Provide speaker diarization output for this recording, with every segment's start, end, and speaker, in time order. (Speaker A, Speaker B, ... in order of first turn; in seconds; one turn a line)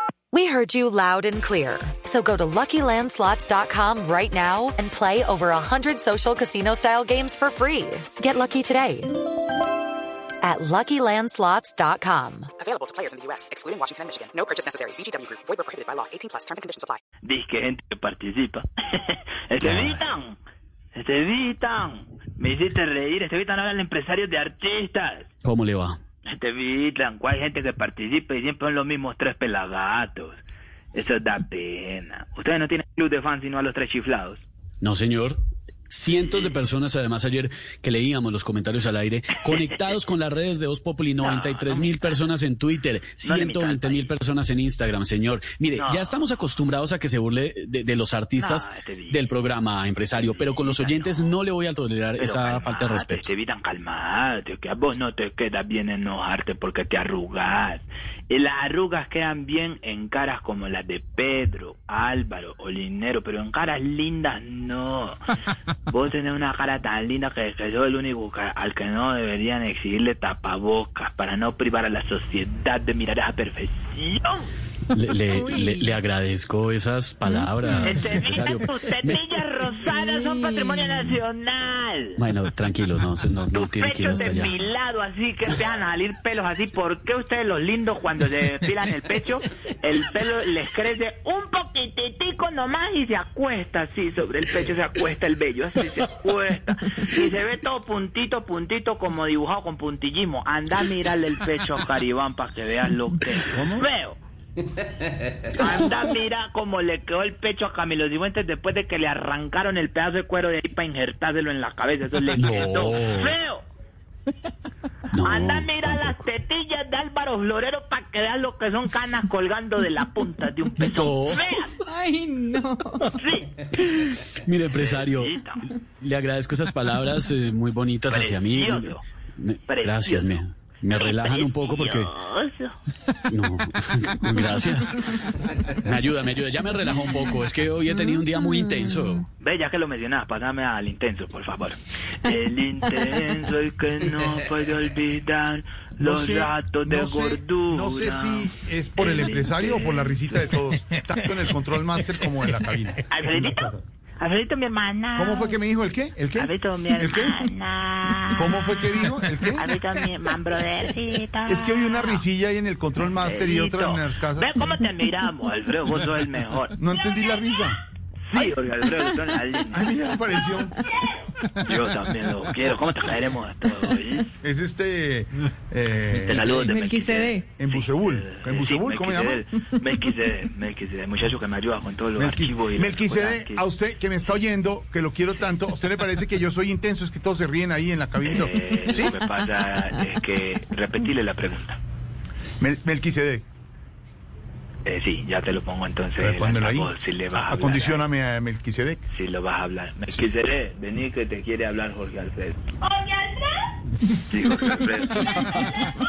Speaker A: 0.3-9.1
Speaker A: 10.4-12.5
Speaker B: 12.6-17.0
Speaker C: 17.2-20.4
Speaker D: 19.6-20.0
Speaker C: 20.9-25.3
Speaker D: 25.4-26.0
Speaker C: 26.3-30.4
Speaker C: 30.9-34.4
Speaker D: 34.8-53.2
Speaker C: 36.1-36.5
Speaker C: 41.2-42.2
Speaker C: 43.2-44.1
Speaker C: 45.8-46.2
Speaker C: 48.4-49.2
Speaker C: 50.1-51.4
Speaker C: 52.2-65.2
Speaker C: 65.9-74.5
Speaker D: 74.9-79.2
Speaker E: 75.3-76.0
Speaker E: 77.2-77.5
Speaker C: 77.8-82.2
Speaker E: 79.9-81.2
Speaker D: 82.2-84.5
Speaker C: 83.5-104.2
Speaker C: 105.6-113.6
Speaker D: 112.4-113.4
Speaker D: 115.1-116.3
Speaker C: 115.2-121.7
Speaker D: 120.8-121.5
Speaker E: 121.8-123.1
Speaker C: 123.2-123.5
Speaker D: 123.8-125.4
Speaker C: 124.7-125.6
Speaker D: 126.0-132.1
Speaker C: 128.1-129.0
Speaker C: 129.7-132.7
Speaker D: 133.3-135.0
Speaker D: 135.7-139.2
Speaker E: 138.0-139.2
Speaker C: 139.4-150.2
Speaker F: 146.0-153.0
Speaker C: 153.1-155.5
Speaker F: 155.2-157.5
Speaker C: 156.3-158.6
Speaker F: 158.4-159.8
Speaker C: 159.5-162.2
Speaker F: 161.5-164.7
Speaker C: 163.1-166.8
Speaker F: 166.8-167.8
Speaker C: 168.3-169.9
Speaker F: 169.7-170.8
Speaker C: 171.6-174.3
Speaker F: 174.4-176.8
Speaker C: 176.1-183.7
Speaker E: 176.7-177.5
Speaker F: 177.6-179.4
Speaker F: 182.2-189.2
Speaker C: 188.2-191.8
Speaker F: 192.6-193.4
Speaker C: 194.8-198.0
Speaker F: 196.2-199.0
Speaker C: 199.1-202.6
Speaker C: 204.3-205.9